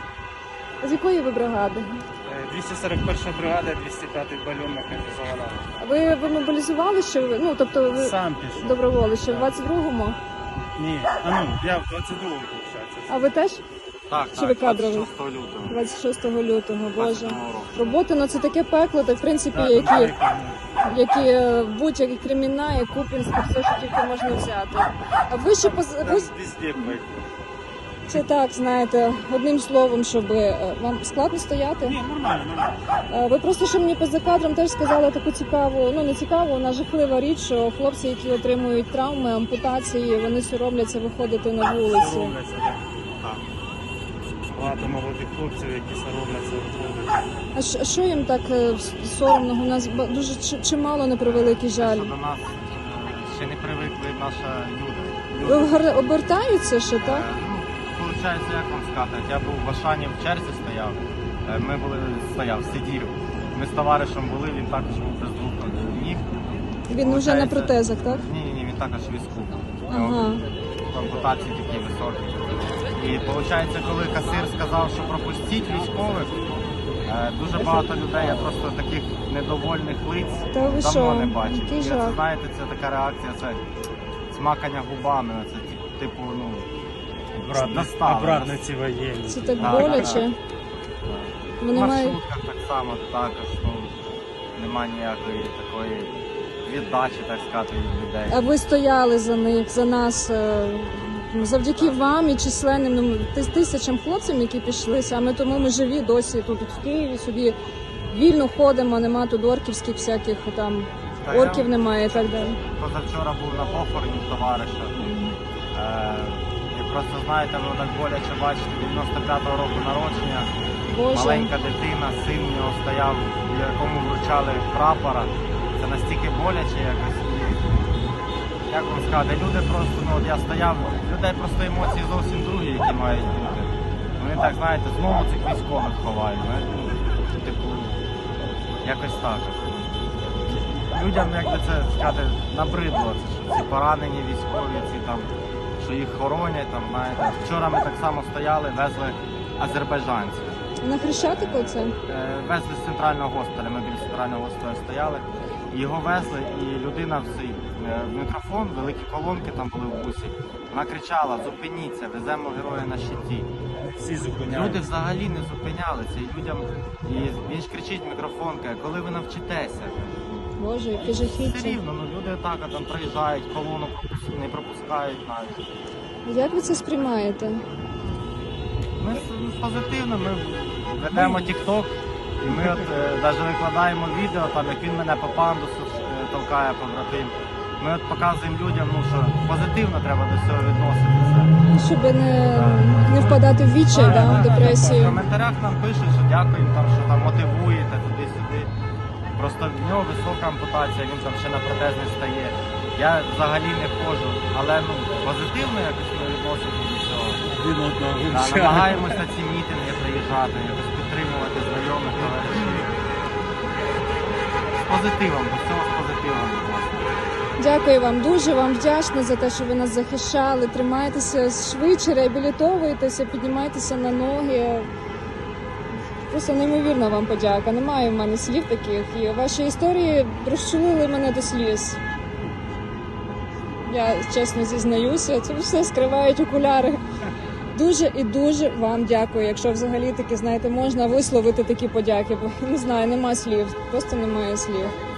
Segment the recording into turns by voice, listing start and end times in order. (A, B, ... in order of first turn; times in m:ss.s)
0:00.8-0:02.0 A
0:02.2-0:05.8 B
0:05.8-0:10.2 A
0:08.0-0:09.5 B
0:10.8-0:13.3 B
0:13.1-0:13.6 A
0:14.1-0:15.8 C
0:14.3-0:15.1 A
0:15.7-0:20.1 A
0:17.0-0:17.8 C
0:19.5-0:20.6 B
0:20.8-0:27.0 A
0:25.6-0:27.2 B
0:28.1-0:32.0 A
0:31.8-0:32.8 B
0:33.1-0:42.3 A
0:41.8-0:42.8 B
0:44.5-0:47.2 B
0:44.5-0:45.0 C
0:47.6-0:52.1 A
0:51.2-0:55.8 C
0:55.4-0:57.2 A
0:57.0-1:06.4 C
1:06.9-1:08.2 A
1:07.0-1:10.4 C
1:09.9-1:10.4 A
1:10.9-1:16.4 C
1:17.1-1:23.6 C
1:20.5-1:22.2 A
1:24.3-1:26.7 C
1:27.4-1:30.2 B
1:27.4-1:28.7 C
1:29.3-1:30.4 A
1:29.6-1:30.2 C
1:31.1-1:33.9 C
1:31.6-1:32.2 A
1:34.6-1:36.1 C
1:36.6-1:38.4 C
1:38.3-1:47.6 A
1:41.8-1:42.0 C
1:48.1-1:52.6 A
1:51.2-1:55.0 C
1:54.9-1:55.4 A
1:55.7-2:00.5 C
2:00.9-2:01.5 A
2:01.1-2:07.6 C
2:08.7-2:18.0 C
2:18.8-2:19.9 C
2:20.5-2:30.6 C
2:30.8-2:31.9 A
2:31.2-2:43.5 C
2:44.0-2:44.8 B
2:44.5-2:50.2 C
2:50.5-2:51.8 A
2:51.0-2:55.6 C
2:56.2-2:57.6 A
2:59.0-3:11.5 C
3:01.2-3:01.5 B
3:11.7-3:15.2 A
3:12.5-3:18.7 C
3:14.0-3:14.7 B
3:19.4-3:27.4 C
3:27.4-3:29.3 B
3:28.3-3:32.9 C
3:32.2-3:32.8 B
3:34.8-3:37.1 C
3:37.6-3:44.9 A
3:46.3-3:52.0 A
3:53.8-3:57.0 A
3:57.7-4:04.9 A